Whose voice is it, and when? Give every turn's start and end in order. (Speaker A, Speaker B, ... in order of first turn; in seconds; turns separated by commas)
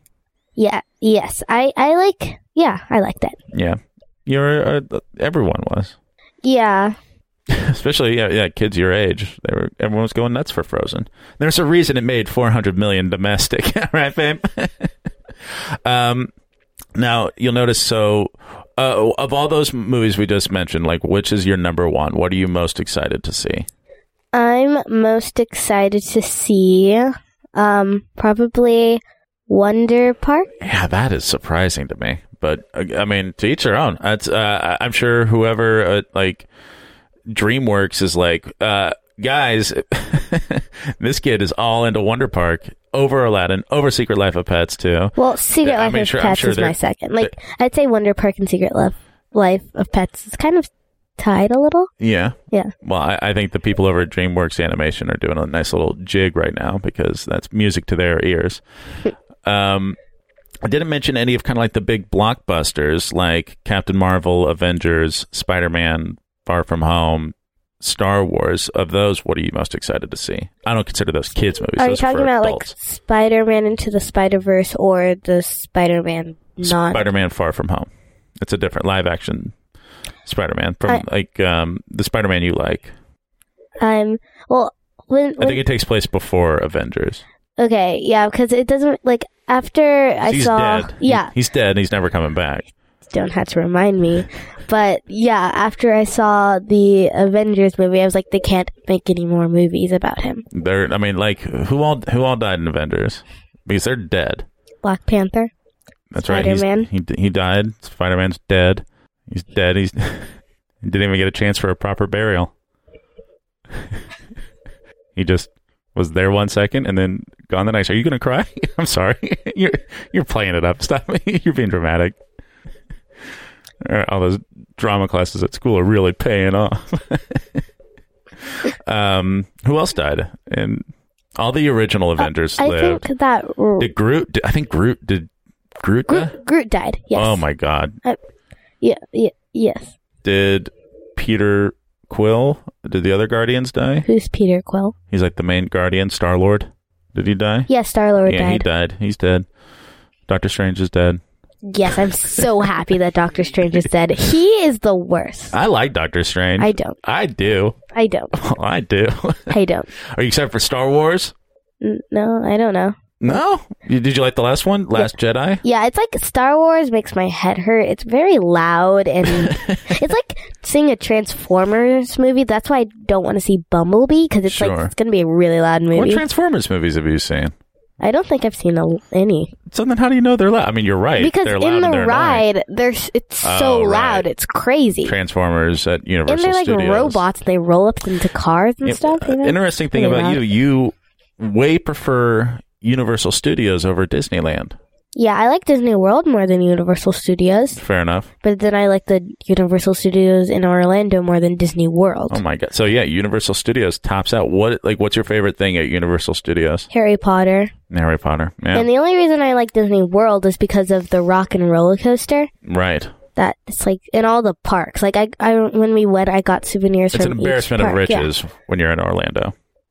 Speaker A: 0.6-3.4, Speaker B: 3.5-5.9, Speaker A: 6.4-7.0, Speaker B: 7.5-14.9, Speaker B: 15.4-16.3, Speaker B: 16.9-23.7, Speaker A: 24.3-30.5, Speaker B: 30.6-36.5, Speaker B: 37.3-47.3, Speaker A: 45.2-51.9, Speaker B: 52.0-58.6, Speaker B: 59.4-60.0, Speaker B: 60.6-72.7, Speaker A: 71.8-77.0, Speaker B: 76.6-77.9, Speaker B: 78.4-79.5, Speaker B: 80.2-82.9, Speaker A: 83.8-85.6, Speaker B: 85.4-87.2, Speaker A: 87.6-91.3, Speaker B: 90.2-92.7, Speaker A: 93.1-100.4, Speaker B: 100.5-104.4, Speaker A: 104.8-105.5, Speaker B: 106.1-112.5, Speaker A: 106.2-106.9, Speaker B: 115.2-122.2, Speaker B: 123.8-127.6, Speaker B: 128.4-130.8, Speaker B: 131.3-133.0, Speaker A: 132.2-133.9, Speaker B: 133.8-136.3, Speaker A: 136.1-137.4, Speaker B: 137.1-138.0, Speaker A: 138.8-139.9, Speaker B: 140.2-144.1, Speaker A: 144.0-144.9, Speaker B: 145.1-147.7, Speaker A: 147.7-148.6, Speaker B: 148.2-149.4, Speaker B: 150.3-151.2, Speaker A: 151.6-155.5, Speaker B: 155.5-157.8, Speaker A: 156.6-157.0, Speaker A: 157.9-158.3, Speaker B: 158.3-161.3, Speaker A: 159.5-159.9, Speaker A: 161.8-163.4, Speaker B: 163.2-165.6, Speaker A: 165.6-176.2, Speaker B: 169.2-170.0, Speaker B: 174.5-174.9, Speaker B: 175.9-177.5, Speaker A: 178.0-179.5, Speaker B: 179.7-182.4, Speaker A: 181.2-185.1, Speaker B: 183.4-184.3, Speaker B: 185.0-187.2, Speaker A: 186.3-190.4, Speaker B: 188.8-194.8, Speaker A: 195.1-197.8, Speaker B: 197.8-198.3, Speaker A: 198.4-202.4, Speaker B: 202.3-206.9, Speaker A: 206.9-207.7, Speaker B: 207.9-208.9, Speaker A: 208.7-212.5, Speaker B: 212.6-213.1, Speaker A: 213.3-218.3, Speaker B: 217.1-219.5